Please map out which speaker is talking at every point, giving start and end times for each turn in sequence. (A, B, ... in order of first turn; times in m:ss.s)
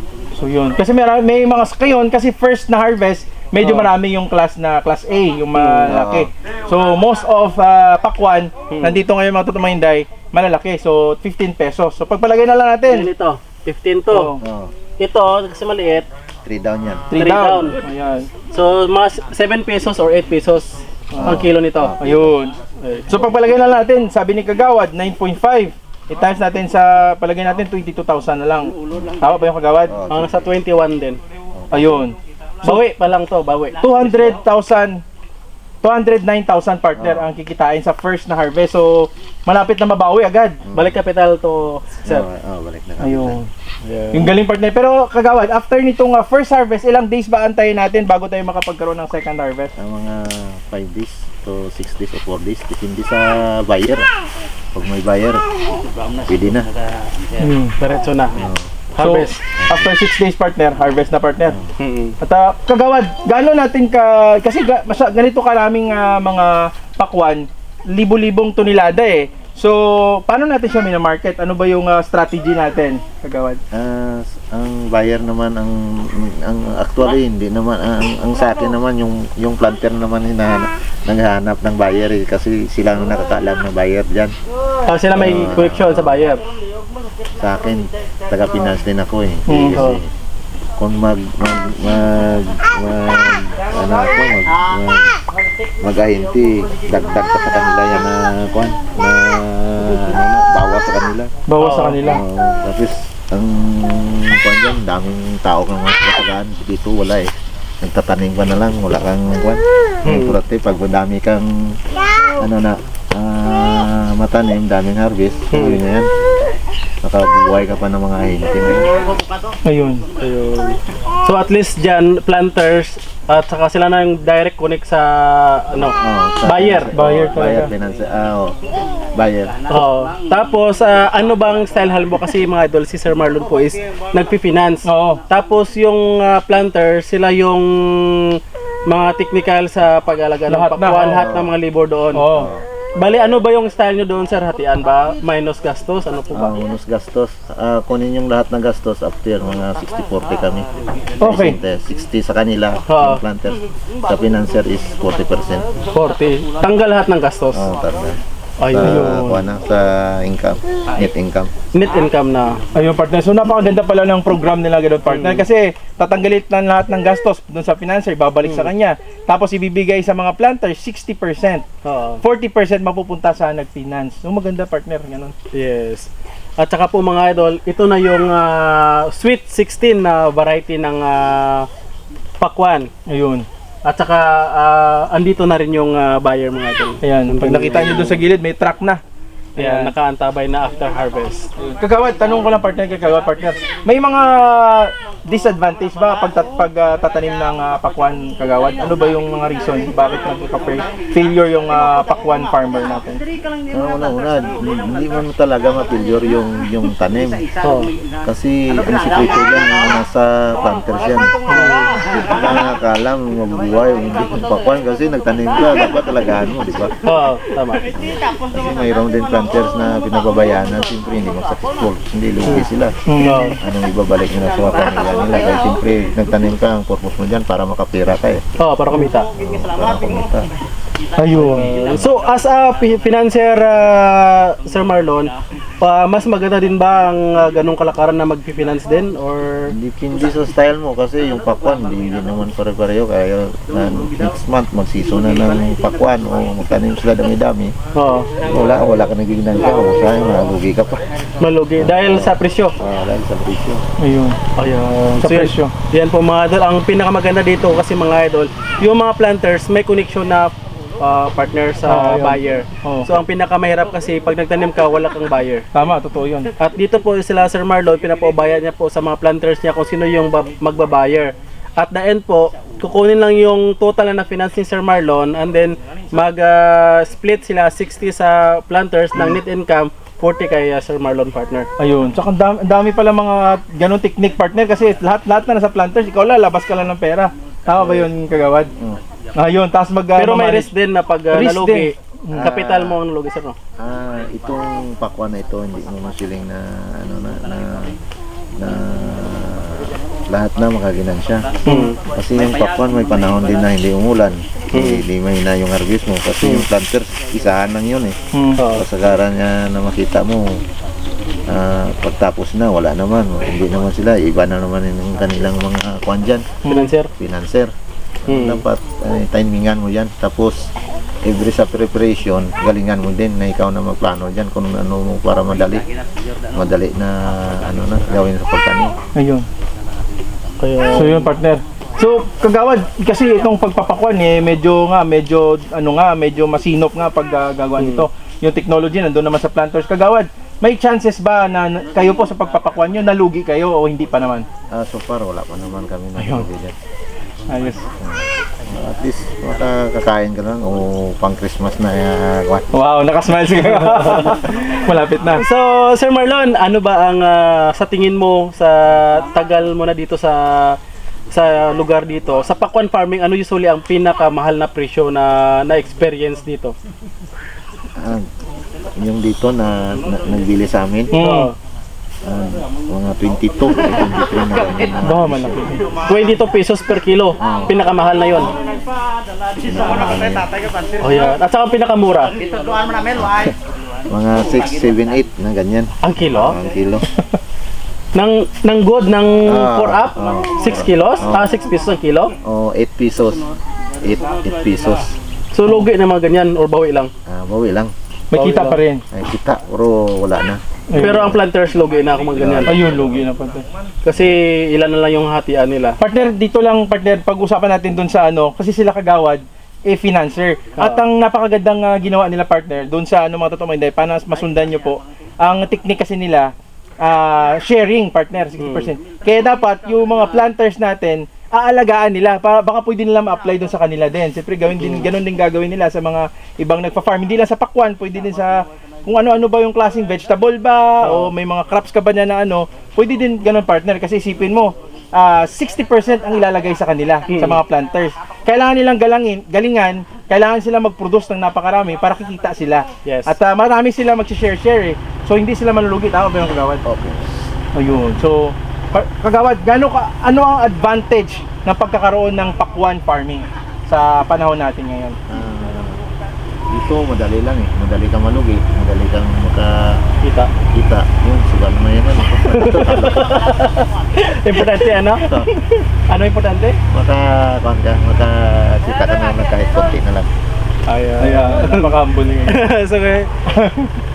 0:00.4-0:13.1 A
0:03.6-0:03.9 B
0:05.6-0:05.9 B
0:05.9-0:06.3 C
0:08.7-0:09.0 B
0:12.9-0:14.3 B
0:14.1-0:14.4 A
0:14.4-0:14.7 C
0:15.0-0:16.1 B
0:16.4-0:17.1 C
0:17.1-0:18.3 A
0:17.1-0:17.8 B
0:18.5-0:21.9 B
0:21.1-0:21.4 A
0:21.2-0:22.3 C
0:22.0-0:22.6 A
0:22.8-0:23.2 B
0:23.1-0:29.9 A
0:29.9-0:30.5 C
0:30.1-0:31.2 B
0:31.6-0:32.0 C
0:31.7-0:32.8 A
0:32.6-0:34.4 B
0:33.8-0:35.0 A
0:35.8-0:40.6 A
0:37.0-0:37.3 C
0:40.6-0:41.0 C
0:40.7-0:42.2 B
0:42.1-0:43.4 C
0:43.0-0:43.5 A
0:43.8-0:44.3 B
0:44.1-0:49.7 A
0:49.8-0:54.1 C
0:54.7-0:55.4 C
0:56.3-0:56.7 C
0:57.4-0:57.8 A
0:57.8-0:58.4 B
0:58.4-0:58.7 C
0:59.0-0:59.4 B
0:59.0-1:01.6 A
1:01.8-1:02.1 B
1:02.2-1:13.6 A
1:13.7-1:24.3 C
1:24.9-1:26.4 B
1:25.1-1:26.2 C
1:27.4-1:30.1 C
1:29.5-1:29.8 A
1:29.8-1:30.0 B
1:30.8-1:35.2 C
1:35.8-1:41.3 C
1:41.5-1:42.2 A
1:41.6-1:42.0 B
1:42.0-1:47.3 C
1:47.8-1:51.5 C
1:50.0-1:50.4 B
1:52.4-1:56.1 C
1:55.5-1:55.8 B
1:57.0-1:58.9 C
1:59.6-2:00.0 A
2:00.2-2:06.9 B
2:05.8-2:08.6 C
2:06.9-2:07.7 A
2:09.2-2:09.6 C
2:09.7-2:22.3 B
2:14.9-2:15.2 A
2:20.5-2:21.2 A
2:21.2-2:21.5 C
2:22.1-2:22.5 A
2:22.3-2:22.6 C
2:23.0-2:26.5 B
2:26.3-2:30.6 C
2:31.2-2:35.7 C
2:31.2-2:31.6 A
2:32.9-2:33.2 B
2:35.9-2:37.7 B
2:37.5-2:41.5 C
2:38.6-2:39.1 B
2:38.8-2:39.4 A
2:41.7-2:42.6 B
2:42.8-2:51.6 A
2:45.1-2:45.4 B
2:48.4-2:48.7 B
2:51.8-2:52.2 B
2:52.2-2:55.3 A
2:55.5-3:01.7 B
3:02.4-3:02.9 B
3:03.1-3:03.4 A
3:03.8-3:08.2 B
3:07.0-3:09.0 A
3:09.6-3:09.9 A
3:09.6-3:11.5 B
3:11.6-3:23.2 A
3:23.7-3:27.4 C
3:27.6-3:27.9 B
3:28.2-3:31.3 C
3:31.5-3:31.7 A
3:31.5-3:31.8 B
3:32.2-3:36.9 C
3:37.0-3:37.8 B
3:38.0-3:43.0 C
3:43.1-3:43.6 A
3:43.2-3:43.6 B
3:43.6-3:48.4 C
3:48.6-3:49.3 B
3:49.4-3:50.5 C
3:51.2-3:51.7 A
3:51.8-3:59.7 B
3:59.7-4:07.7 C
4:07.9-4:08.3 B
4:08.4-4:11.0 C
4:11.4-4:12.8 B
4:11.8-4:13.8 C
4:14.0-4:14.4 A
4:14.6-4:20.5 B
4:15.2-4:15.7 A
4:21.0-4:25.6 B
4:21.8-4:23.1 A
4:25.7-4:26.5 A
4:26.6-4:41.7 B
4:41.8-4:48.7 A
4:47.8-4:48.0 B
4:49.4-4:50.7 A
4:50.2-4:53.6 B
4:51.3-4:52.5 A
4:52.3-4:53.0 C
4:53.8-4:57.9 C
4:58.6-5:01.5 C
5:01.7-5:01.9 A
5:01.7-5:02.0 B
5:02.1-5:08.2 C
5:04.7-5:05.0 B
5:06.4-5:06.7 B
5:08.3-5:08.6 A
5:08.6-5:08.8 B
5:08.7-5:10.6 C
5:11.5-5:16.6 C
5:16.6-5:16.9 A
5:16.7-5:17.1 B
5:17.2-5:17.7 C
5:18.3-5:20.6 C
5:18.3-5:18.6 B
5:21.2-5:25.8 C
5:26.6-5:28.9 C
5:29.2-5:29.4 A
5:30.6-5:31.3 B
5:30.9-5:44.4 A
5:37.8-5:38.1 B
5:44.7-5:46.7 C
5:46.2-5:46.5 A
5:47.5-5:47.8 A
5:48.0-5:52.7 C
5:52.7-5:55.4 A
5:53.6-5:54.4 B
5:55.3-6:00.8 B
6:01.3-6:06.7 B
6:08.0-6:08.3 C
6:09.0-6:11.1 C
6:11.1-6:11.5 A
6:11.2-6:11.6 B
6:12.2-6:15.6 C
6:15.0-6:15.8 A
6:16.1-6:18.5 B
6:17.4-6:17.7 C
6:19.6-6:20.5 C
6:21.0-6:22.3 B
6:23.2-6:23.5 C
6:24.1-6:27.1 C
6:26.0-6:26.6 B
6:28.1-6:32.3 B
6:29.4-6:31.5 C
6:32.4-6:33.4 C
6:34.0-6:35.1 C
6:35.5-6:37.1 B
6:37.3-6:37.9 C
6:38.3-6:39.0 A
6:38.3-6:38.8 B
6:39.1-6:41.4 C
6:40.9-6:41.3 A
6:41.0-6:42.7 B
6:42.4-6:43.2 C
6:42.7-6:43.6 A
6:44.0-6:46.0 B
6:46.0-6:56.5 A
6:50.8-6:51.0 B
6:57.0-7:26.8 A
6:58.6-6:58.9 B
7:04.8-7:05.1 B
7:11.0-7:11.3 B
7:17.3-7:17.6 B
7:23.0-7:23.4 B
7:26.8-7:27.5 C
7:27.7-7:35.2 A
7:35.3-7:36.0 C
7:36.7-7:40.0 C
7:40.2-7:40.5 B
7:40.7-7:43.5 C
7:42.4-7:45.3 B
7:45.2-7:45.5 C
7:46.1-7:46.8 B
7:46.9-7:50.3 C
7:50.9-7:51.9 B
7:51.2-7:52.6 A
7:52.5-7:53.3 B
7:53.5-7:53.9 A